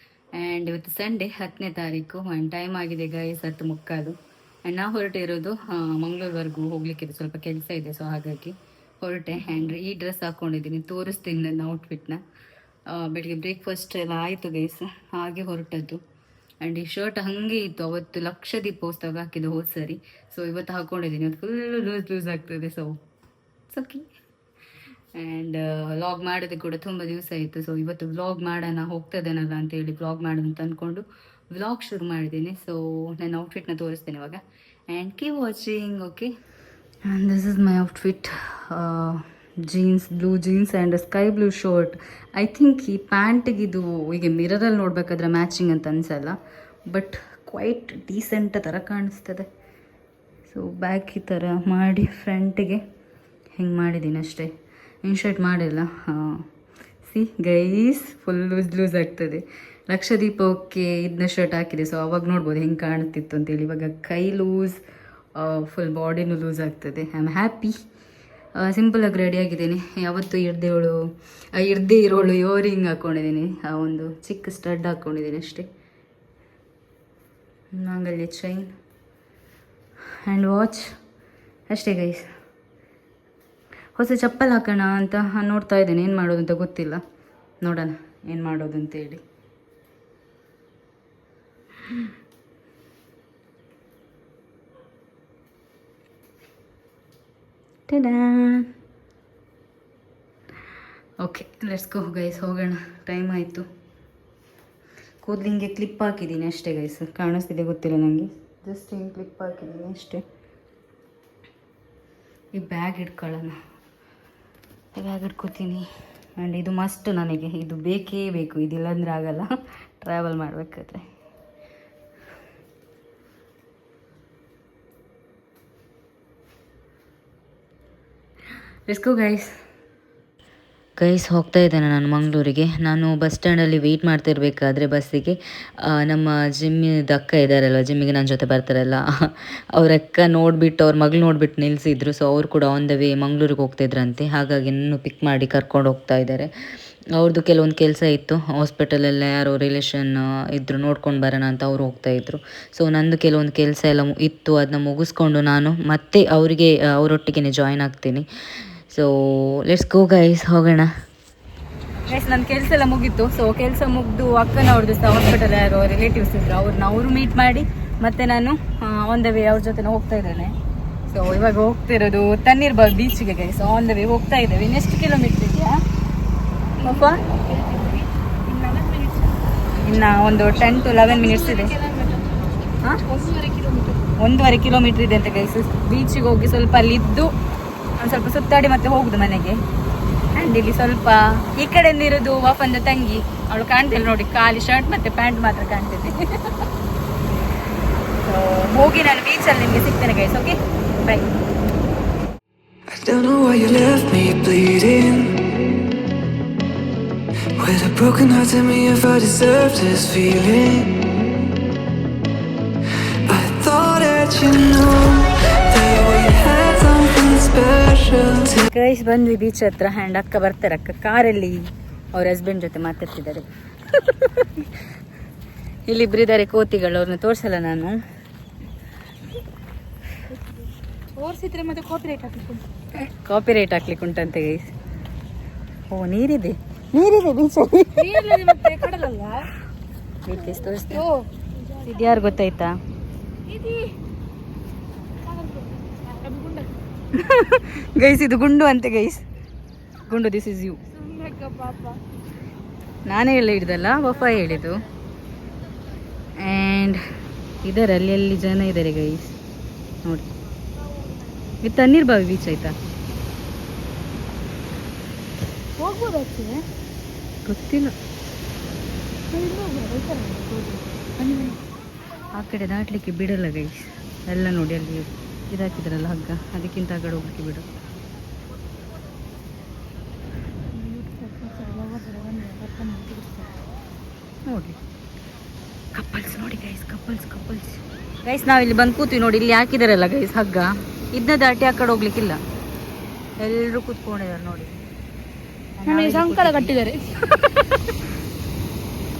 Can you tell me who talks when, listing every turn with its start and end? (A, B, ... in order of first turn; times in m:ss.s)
0:00.3-0:12.2 A
0:12.9-0:16.0 A
0:16.6-0:23.0 A
0:23.7-0:24.0 A
0:25.1-0:36.3 A
0:37.0-0:49.5 A
0:50.5-0:52.8 A
0:53.6-0:54.5 A
0:55.0-0:56.4 A
0:57.0-1:04.8 A
1:05.4-1:07.7 A
1:08.6-1:15.7 A
1:17.7-1:18.7 A
1:20.2-1:20.9 A
1:21.7-1:22.3 A
1:24.0-1:27.0 A
1:27.6-1:29.2 A
1:37.9-1:38.7 A
1:41.2-1:43.6 A
1:45.2-1:50.2 A
1:52.5-1:53.6 A
1:54.9-1:59.5 A
2:00.0-2:01.0 A
2:08.9-2:09.5 A
2:11.0-2:26.5 A
2:27.2-2:38.2 A
2:38.9-2:40.9 A
2:42.1-2:50.5 A
2:51.1-2:55.8 A
2:56.8-2:59.4 B
2:56.8-2:57.2 A
2:59.8-3:01.8 A
3:00.6-3:02.3 B
3:03.0-3:04.0 B
3:04.2-3:07.3 A
3:08.0-3:09.6 A
3:10.4-3:16.5 A
3:18.2-3:21.3 A
3:22.9-3:25.6 C
3:27.5-3:31.2 C
3:33.1-3:38.6 C
3:38.5-3:44.7 A
3:45.8-3:48.0 A
3:51.1-3:52.6 B
3:53.0-3:54.7 A
3:55.9-3:58.4 A
3:58.0-3:59.5 B
4:00.2-4:01.0 A
4:00.7-4:01.3 B
4:01.8-4:02.2 B
4:01.8-4:02.8 A
4:03.5-4:04.0 B
4:05.2-4:06.7 B
4:07.1-4:09.2 A
4:10.1-4:10.8 A
4:10.9-4:12.0 B
4:13.0-4:14.8 A
4:16.4-4:17.0 A
4:17.6-4:19.4 A
4:21.6-4:22.7 A
4:25.8-4:26.6 B
4:27.4-4:27.9 A
4:29.3-4:31.6 B
4:31.2-4:31.6 A
4:32.3-4:37.6 A
4:40.7-4:43.5 B
4:44.4-4:44.8 A
4:45.9-4:52.4 A
4:53.4-4:54.8 A
4:55.8-4:56.8 A
4:55.9-4:57.3 B
4:57.3-4:57.7 A